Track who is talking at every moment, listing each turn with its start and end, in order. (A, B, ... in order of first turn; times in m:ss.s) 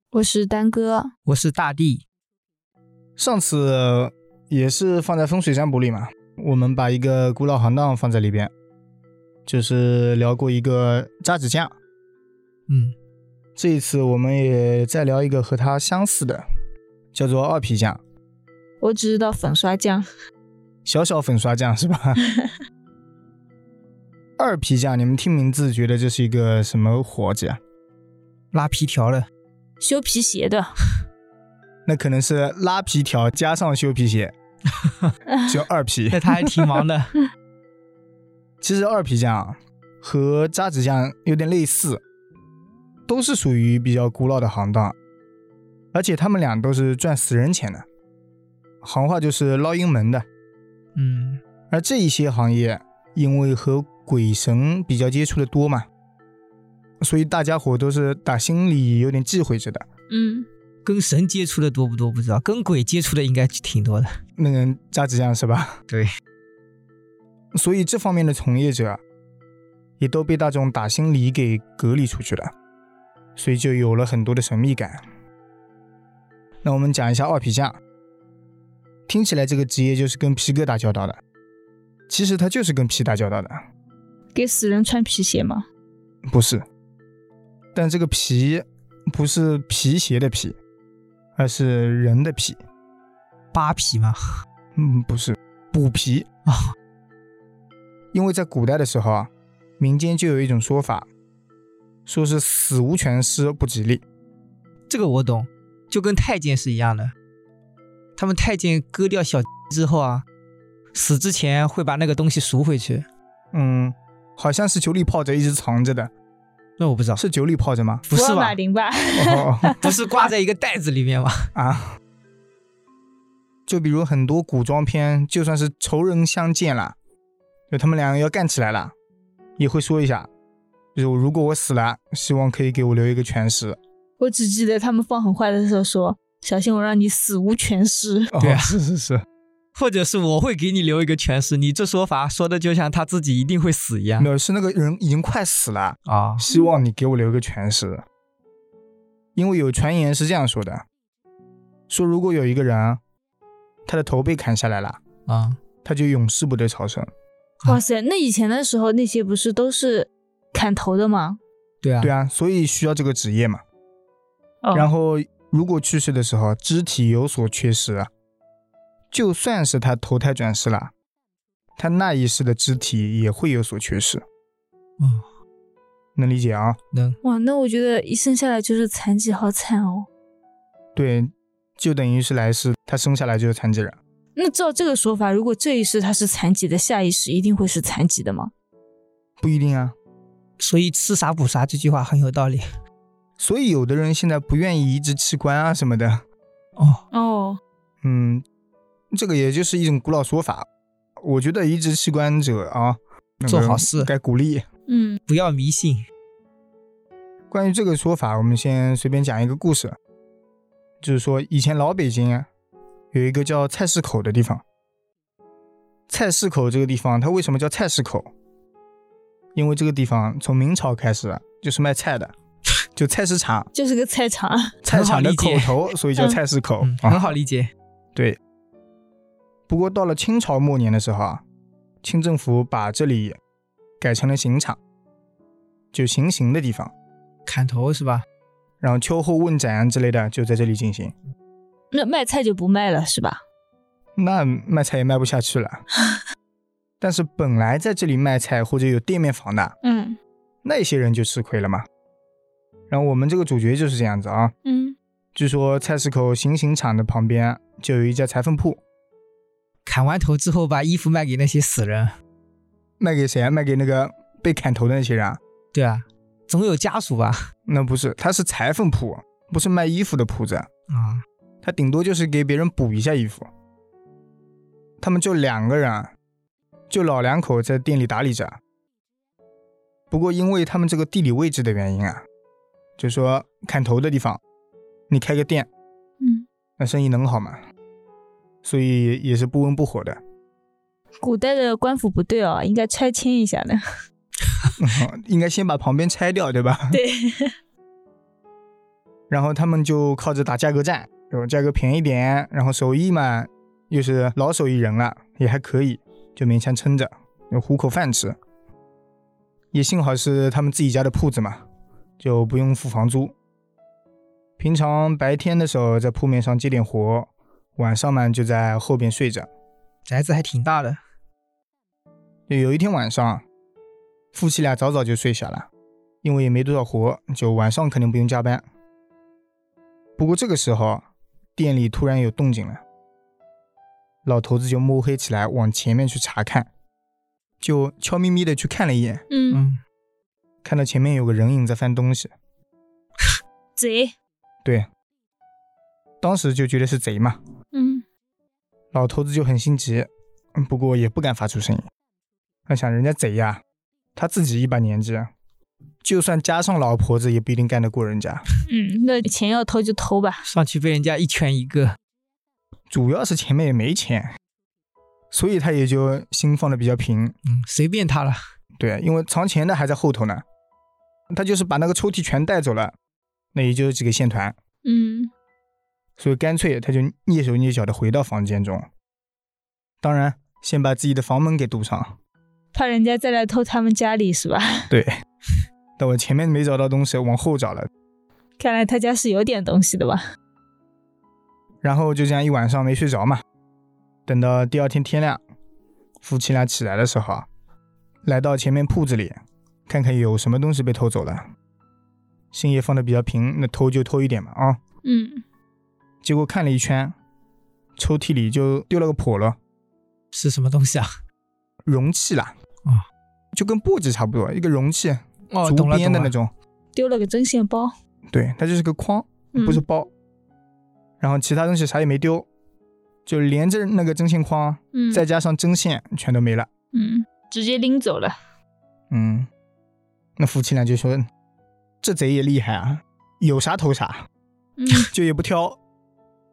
0:00.1-0:01.1 A
0:01.3-0:02.0 B
0:03.2-0:08.5 C
0:09.4-0:11.7 C
0:12.7-0:12.9 B
0:13.6-0:16.4 C
0:17.1-0:18.0 C
0:18.8-0:20.0 A
0:20.8-0:22.2 C
0:22.2-0:22.5 A
0:24.4-0:27.6 C
0:28.5-0:29.3 B
0:29.8-0:30.7 A
0:31.8-0:34.3 C
0:34.7-0:35.1 B
0:35.5-0:36.2 C
0:36.1-0:37.1 B
0:38.6-0:42.0 C
0:43.1-0:44.9 C
0:45.9-0:47.8 C
0:48.8-0:50.2 C
0:50.9-0:51.4 B
0:51.7-0:55.9 C
0:57.0-0:59.8 C
1:00.1-1:00.5 A
1:00.8-1:04.1 B
1:04.4-1:05.8 C
1:07.5-1:09.0 C
1:10.0-1:12.5 C
1:13.4-1:15.0 C
1:16.6-1:17.8 C
1:19.1-1:21.2 C
1:22.1-1:23.6 C
1:24.3-1:25.6 A
1:26.2-1:26.6 C
1:27.7-1:30.6 C
1:31.4-1:32.6 C
1:33.5-1:34.2 B
1:34.7-1:36.3 C
1:36.4-1:36.7 B
1:38.1-1:41.1 C
1:42.0-1:44.0 C
1:44.9-1:47.1 B
1:48.2-1:50.2 B
1:50.9-1:53.0 B
1:53.5-1:56.1 C
1:56.8-1:57.2 B
1:57.2-1:58.1 C
1:58.1-1:58.6 B
1:58.1-1:59.9 A
1:59.1-1:59.8 C
1:59.8-2:01.5 B
2:01.5-2:02.0 C
2:03.7-2:06.9 C
2:07.7-2:08.9 C
2:09.6-2:10.3 C
2:10.9-2:13.8 C
2:14.2-2:18.3 A
2:18.3-2:19.2 C
2:18.4-2:18.8 B
2:19.8-2:24.3 B
2:24.2-2:28.0 C
2:26.0-2:26.4 B
2:29.4-2:30.8 C
2:31.9-2:33.0 C
2:33.8-2:35.0 C
2:35.3-2:35.6 B
2:35.8-2:37.1 C
2:37.6-2:41.4 A
2:41.8-2:42.1 B
2:42.0-2:43.6 C
2:44.7-2:48.1 C
2:49.1-2:50.9 C
2:51.8-2:54.2 C
2:55.0-2:55.2 B
2:56.2-2:56.8 C
2:56.9-2:57.2 B
2:57.2-3:00.1 A
3:00.9-3:04.0 C
3:04.4-3:08.5 A
3:09.4-3:09.9 C
3:10.6-3:12.6 B
3:13.4-3:16.2 C
3:16.8-3:17.0 B
3:17.1-3:17.6 A
3:18.0-3:18.4 C
3:19.1-3:20.6 C
3:21.2-3:24.6 C
3:23.5-3:24.1 B
3:24.9-3:25.2 A
3:25.3-3:26.0 B
3:27.5-3:30.0 C
3:31.0-3:32.5 C
3:33.1-3:34.6 C
3:36.1-3:38.3 C
3:39.5-3:42.3 C
3:42.9-3:43.7 C
3:43.7-3:44.8 A
3:44.8-3:47.2 C
3:44.9-3:45.8 B
3:46.8-3:47.7 B
3:49.7-3:51.4 C
3:52.0-3:53.4 C
3:54.0-3:54.8 C
3:55.9-3:56.9 C
3:57.4-3:58.2 B
3:58.8-4:01.1 C
4:01.9-4:03.4 A
4:04.2-4:05.8 C
4:07.0-4:09.7 C
4:09.8-4:10.2 A
4:10.6-4:11.8 C
4:12.9-4:14.5 C
4:14.6-4:15.0 A
4:15.3-4:18.8 C
4:19.8-4:22.2 B
4:23.0-4:25.4 C
4:25.7-4:27.5 B
4:27.7-4:30.7 C
4:30.9-4:31.2 B
4:31.6-4:33.5 C
4:35.0-4:36.1 C
4:36.9-4:38.6 C
4:40.1-4:42.2 C
4:43.0-4:44.4 C
4:45.1-4:45.7 C
4:46.2-4:46.4 A
4:46.8-4:47.6 C
4:48.6-4:50.2 C
4:51.2-4:53.8 A
4:54.8-4:57.0 C
4:56.9-4:57.6 A
4:59.3-5:08.4 C
5:09.7-5:11.6 C
5:12.2-5:13.3 C
5:14.6-5:19.5 C
5:20.1-5:21.0 B
5:22.5-5:23.4 C
5:24.3-5:25.7 C
5:26.2-5:28.6 C
5:30.2-5:31.0 C
5:31.6-5:32.8 C
5:34.2-5:36.7 C
5:37.6-5:39.2 C
5:39.3-5:39.6 A
5:39.5-5:39.8 B
5:40.6-5:42.3 C
5:43.8-5:44.1 A
5:46.2-5:47.4 C
5:47.7-5:48.0 A
5:48.9-5:51.8 C
5:52.7-5:53.6 C
5:54.1-5:55.3 C
5:56.0-5:58.4 C
5:58.7-6:00.4 A
6:00.4-6:02.0 B
6:02.9-6:04.4 C
6:05.3-6:07.3 C
6:07.4-6:08.4 B
6:08.8-6:10.4 C
6:11.3-6:12.9 C
6:13.5-6:14.5 C
6:14.8-6:15.3 A
6:16.2-6:18.9 C
6:20.0-6:22.2 C
6:22.7-6:24.9 A
6:24.9-6:25.2 C
6:26.0-6:27.9 C
6:28.6-6:30.2 A
6:31.8-6:33.4 C
6:34.3-6:35.4 C
6:36.2-6:37.5 C
6:38.2-6:41.4 C
6:42.5-6:44.8 C
6:45.0-6:45.4 A
6:46.2-6:47.1 C
6:48.0-6:49.6 C
6:50.3-6:51.1 B
6:51.9-6:52.5 C
6:53.5-6:56.5 C
6:55.5-6:56.3 B
6:56.9-6:57.9 A
6:58.3-7:00.1 C
6:59.5-6:59.8 A
7:01.2-7:02.5 C
7:03.2-7:06.7 C
7:04.9-7:05.2 A
7:06.9-7:08.4 A
7:09.1-7:09.5 C
7:10.4-7:11.3 C
7:12.0-7:14.3 C
7:14.8-7:15.1 A
7:15.0-7:15.8 C